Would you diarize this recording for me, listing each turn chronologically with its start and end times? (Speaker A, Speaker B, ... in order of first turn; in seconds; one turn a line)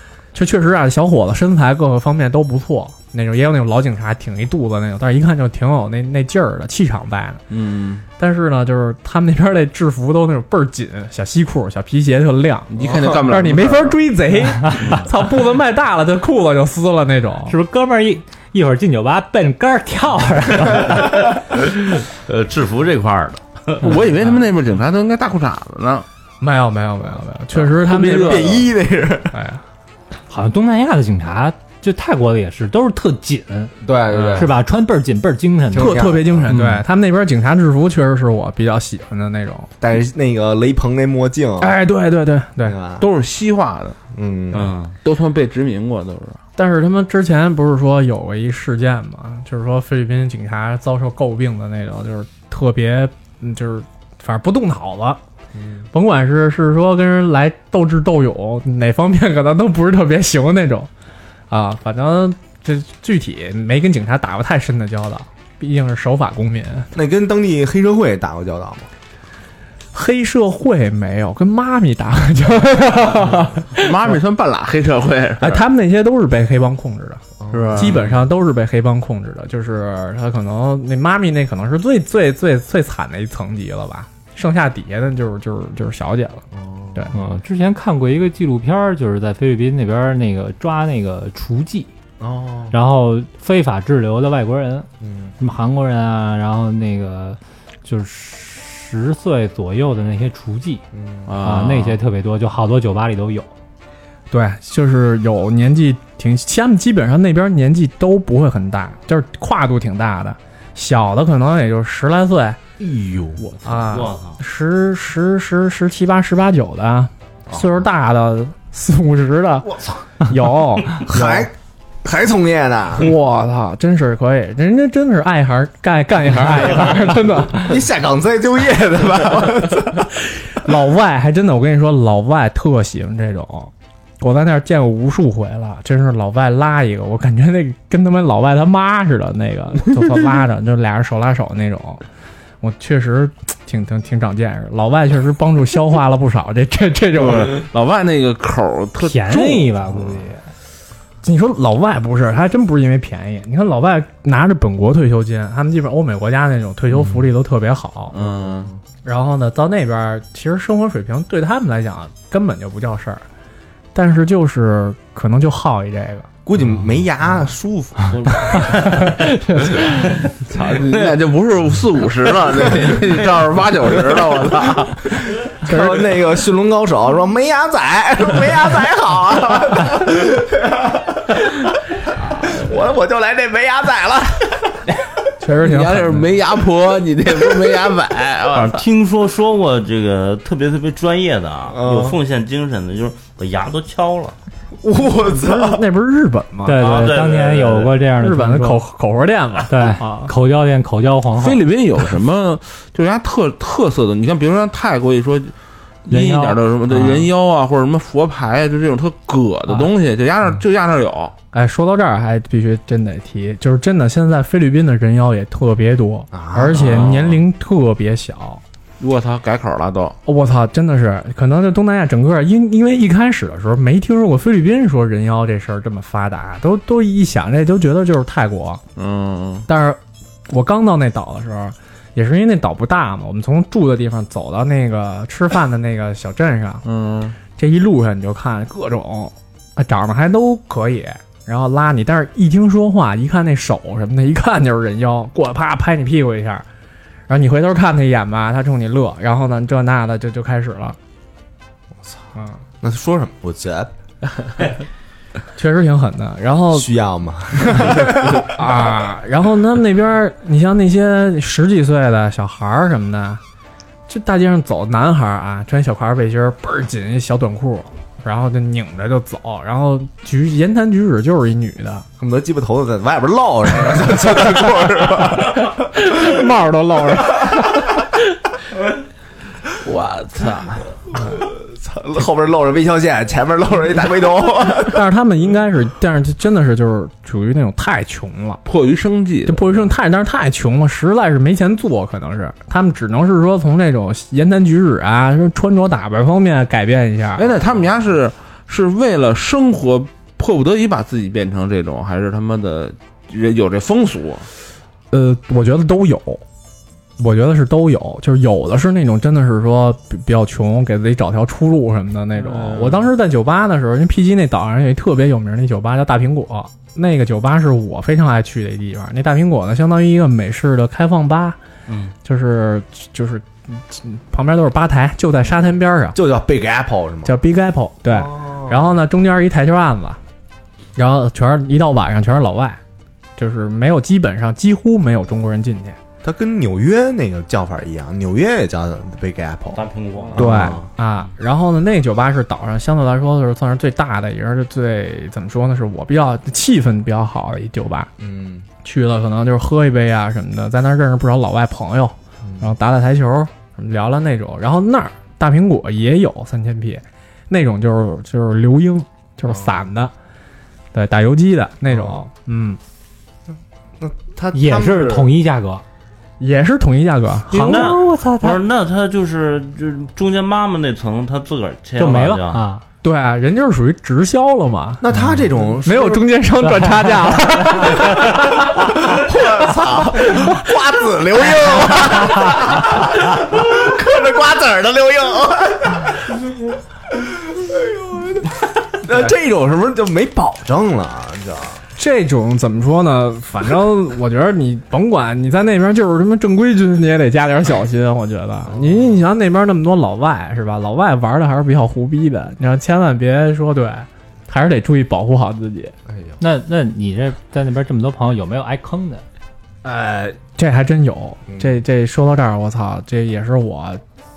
Speaker A: 0.3-7.5
Speaker B: 7.5-8.0
Speaker A: 8.2-17.6
Speaker B: 12.7-14.0
Speaker C: 14.8-15.1
Speaker D: 17.5-21.3
Speaker C: 21.5-23.8
Speaker B: 23.8-26.1
Speaker A: 26.4-28.7
Speaker E: 27.7-29.4
Speaker B: 27.8-28.6
Speaker A: 29.3-29.6
Speaker D: 30.3-33.7
Speaker E: 33.8-34.6
Speaker D: 34.3-36.8
Speaker E: 35.7-36.5
Speaker A: 35.8-39.7
Speaker E: 39.8-41.8
Speaker A: 41.6-42.8
Speaker E: 42.6-43.1
Speaker B: 43.0-44.0
Speaker E: 44.1-44.8
Speaker C: 44.5-45.0
Speaker B: 45.0-46.4
Speaker A: 46.6-55.2
Speaker E: 55.5-55.9
Speaker A: 55.9-60.9
Speaker A: 61.5-66.9
Speaker E: 66.9-68.9
Speaker A: 69.9-74.2
Speaker B: 73.8-75.6
Speaker A: 75.4-77.2
Speaker E: 77.4-78.1
Speaker B: 77.5-78.1
Speaker A: 77.8-87.1
Speaker E: 86.5-87.2
Speaker D: 87.1-91.9
Speaker E: 92.2-92.8
Speaker D: 92.7-94.9
Speaker E: 95.0-95.3
Speaker D: 95.4-100.8
Speaker E: 100.9-101.3
Speaker B: 101.3-102.0
Speaker D: 101.4-103.5
Speaker A: 104.3-112.6
Speaker E: 112.8-113.4
Speaker A: 113.4-121.5
Speaker C: 113.8-114.4
Speaker E: 117.5-117.7
Speaker E: 119.6-120.0
Speaker E: 121.0-123.2
Speaker A: 123.0-127.8
Speaker E: 127.6-130.1
Speaker A: 130.2-142.0
Speaker A: 142.6-147.7
Speaker B: 147.1-150.3
Speaker D: 149.0-150.4
Speaker A: 151.2-158.2
Speaker B: 158.1-158.7
Speaker E: 158.5-158.7
Speaker A: 159.0-163.2
Speaker A: 163.9-166.3
Speaker E: 166.5-168.6
Speaker C: 168.1-169.2
Speaker A: 168.8-170.2
Speaker B: 170.4-175.3
Speaker E: 175.5-181.6
Speaker A: 175.7-176.1
Speaker E: 182.2-184.8
Speaker A: 185.4-186.3
Speaker B: 185.6-188.8
Speaker C: 188.6-194.3
Speaker E: 191.7-192.2
Speaker E: 194.8-195.8
Speaker A: 195.3-197.1
Speaker D: 196.7-198.8
Speaker C: 196.8-197.9
Speaker A: 198.2-200.3
Speaker D: 199.7-201.6
Speaker B: 201.4-205.5
Speaker B: 206.1-211.3
Speaker D: 206.1-207.3
Speaker A: 211.5-218.6
Speaker E: 216.3-217.2
Speaker B: 216.7-217.4
Speaker B: 219.0-220.2
Speaker A: 220.2-228.8
Speaker B: 229.0-229.7
Speaker A: 229.7-236.8
Speaker B: 236.8-237.4
Speaker A: 237.5-246.7
Speaker A: 247.3-251.0
Speaker E: 252.8-253.9
Speaker A: 255.6-256.9
Speaker E: 256.7-258.5
Speaker A: 257.7-263.4
Speaker A: 264.1-272.1
Speaker E: 272.2-276.3
Speaker A: 275.9-278.2
Speaker B: 279.8-280.8
Speaker E: 281.1-285.0
Speaker A: 284.9-288.6
Speaker B: 288.6-289.8
Speaker A: 289.5-297.5
Speaker B: 297.4-304.5
Speaker A: 305.1-306.4
Speaker A: 307.2-321.6
Speaker B: 312.4-313.1
Speaker C: 321.9-322.1
Speaker A: 322.2-326.2
Speaker E: 326.1-327.4
Speaker A: 327.2-330.2
Speaker E: 328.1-328.9
Speaker A: 331.0-332.8
Speaker A: 333.4-336.0
Speaker E: 336.2-339.8
Speaker C: 339.7-340.7
Speaker E: 340.3-340.9
Speaker A: 340.4-348.1
Speaker E: 348.2-348.7
Speaker A: 348.8-360.1
Speaker E: 352.4-352.7
Speaker E: 359.5-359.8
Speaker A: 360.9-362.8
Speaker E: 361.9-362.2
Speaker E: 364.0-365.3
Speaker D: 364.5-365.8
Speaker A: 366.4-368.0
Speaker D: 367.5-368.6
Speaker C: 367.6-372.6
Speaker D: 372.0-372.8
Speaker A: 373.0-375.0
Speaker E: 375.0-376.3
Speaker A: 375.8-379.2
Speaker D: 376.6-378.1
Speaker E: 378.1-386.3
Speaker A: 380.2-380.6
Speaker E: 387.5-391.8
Speaker A: 392.0-405.9
Speaker E: 398.7-399.1
Speaker E: 406.1-406.4
Speaker D: 406.4-409.2
Speaker E: 409.9-410.4
Speaker A: 410.3-414.0
Speaker E: 411.5-411.8